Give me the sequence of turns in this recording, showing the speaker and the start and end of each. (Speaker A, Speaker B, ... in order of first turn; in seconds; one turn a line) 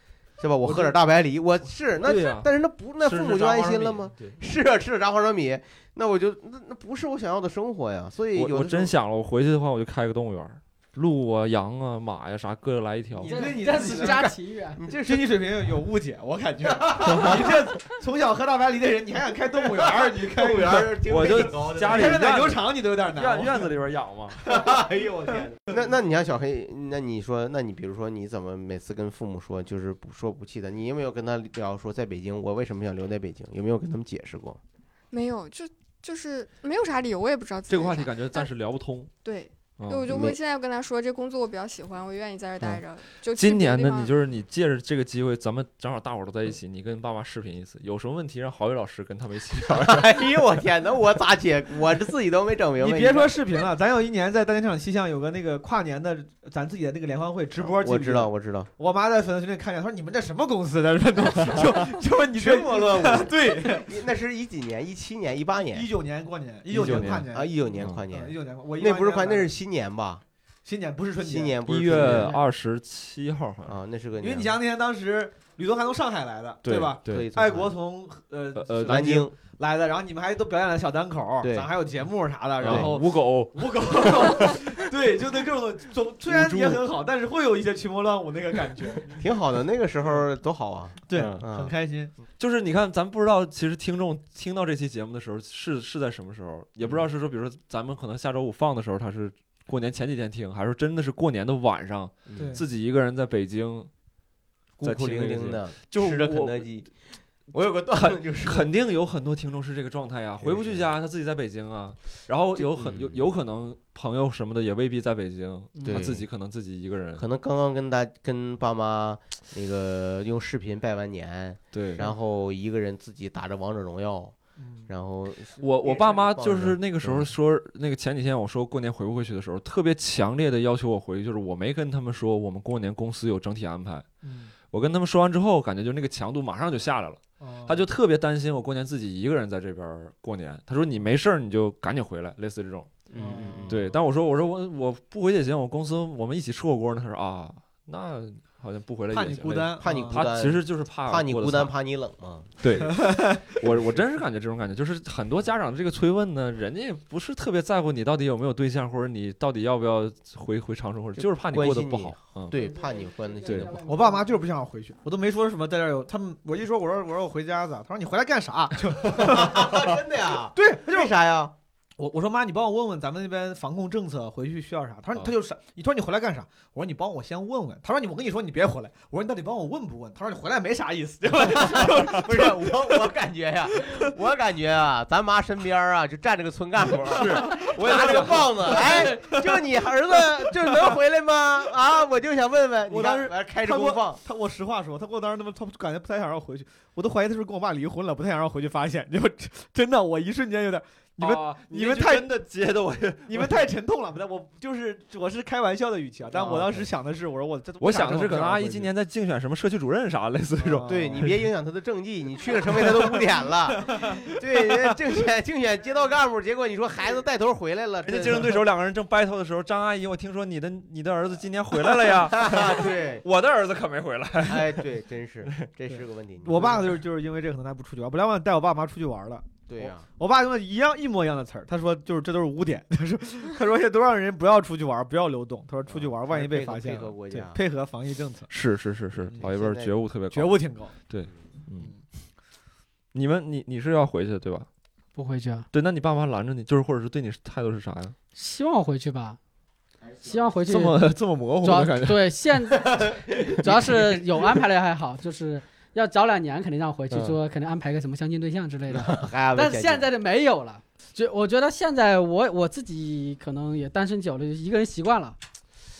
Speaker A: 0.4-8.9
Speaker B: 0.6-0.9
Speaker B: 2.0-4.4
Speaker B: 8.3-13.4
Speaker C: 13.1-14.3
Speaker D: 13.2-14.8
Speaker A: 13.7-15.2
Speaker C: 14.9-21.0
Speaker A: 16.7-17.6
Speaker A: 19.6-22.3
Speaker B: 21.1-24.4
Speaker C: 21.9-23.7
Speaker C: 24.4-24.8
Speaker A: 24.4-34.6
Speaker E: 35.1-38.5
Speaker B: 37.7-39.1
Speaker E: 39.2-44.1
Speaker B: 39.8-40.1
Speaker A: 40.1-40.4
Speaker B: 43.3-50.2
Speaker A: 49.7-53.3
Speaker C: 52.8-63.9
Speaker A: 57.5-58.7
Speaker A: 62.3-65.9
Speaker C: 65.7-69.5
Speaker B: 66.7-67.2
Speaker A: 66.7-70.2
Speaker B: 67.8-68.0
Speaker C: 70.6-72.3
Speaker A: 71.2-72.4
Speaker B: 71.7-73.8
Speaker A: 73.6-74.6
Speaker C: 74.2-89.2
Speaker B: 76.6-77.3
Speaker A: 77.0-77.8
Speaker B: 78.5-79.1
Speaker A: 78.8-79.3
Speaker A: 81.4-81.7
Speaker B: 82.6-84.6
Speaker A: 82.6-82.9
Speaker B: 86.3-86.8
Speaker A: 89.1-91.7
Speaker C: 91.1-92.1
Speaker B: 92.4-103.9
Speaker A: 102.3-102.6
Speaker C: 102.4-102.6
Speaker A: 104.8-106.9
Speaker B: 104.8-106.8
Speaker A: 107.5-108.7
Speaker B: 107.9-117.2
Speaker A: 110.4-110.8
Speaker A: 112.6-113.2
Speaker D: 115.7-116.1
Speaker A: 115.8-116.2
Speaker A: 117.2-124.3
Speaker B: 121.7-122.1
Speaker C: 124.6-124.9
Speaker A: 124.9-127.3
Speaker B: 125.6-134.1
Speaker C: 134.2-134.5
Speaker B: 134.7-143.0
Speaker C: 137.4-137.8
Speaker A: 143.1-143.9
Speaker C: 143.2-143.8
Speaker B: 143.7-151.7
Speaker C: 149.1-150.2
Speaker A: 149.8-152.6
Speaker B: 152.6-162.6
Speaker C: 152.9-153.6
Speaker A: 161.2-163.9
Speaker B: 163.4-163.8
Speaker D: 163.7-164.2
Speaker C: 163.7-169.9
Speaker A: 169.1-171.5
Speaker C: 170.5-171.1
Speaker C: 172.0-182.9
Speaker A: 181.4-194.2
Speaker B: 187.0-189.1
Speaker C: 187.1-189.5
Speaker C: 192.9-202.4
Speaker B: 201.2-203.7
Speaker C: 203.3-208.9
Speaker A: 206.3-206.8
Speaker B: 206.4-206.8
Speaker B: 207.8-211.3
Speaker C: 210.6-211.3
Speaker A: 210.8-218.6
Speaker C: 212.5-214.3
Speaker B: 218.0-224.8
Speaker A: 222.2-223.2
Speaker A: 224.4-226.9
Speaker C: 225.9-238.5
Speaker A: 229.7-230.0
Speaker A: 235.9-237.6
Speaker B: 238.5-241.9
Speaker A: 239.4-239.9
Speaker C: 240.3-240.9
Speaker B: 243.1-244.7
Speaker D: 245.1-245.7
Speaker B: 245.7-248.1
Speaker D: 248.3-249.4
Speaker A: 250.0-250.5
Speaker D: 250.2-251.0
Speaker B: 250.7-252.2
Speaker D: 251.6-265.4
Speaker A: 252.9-253.6
Speaker B: 253.7-254.0
Speaker A: 258.9-260.1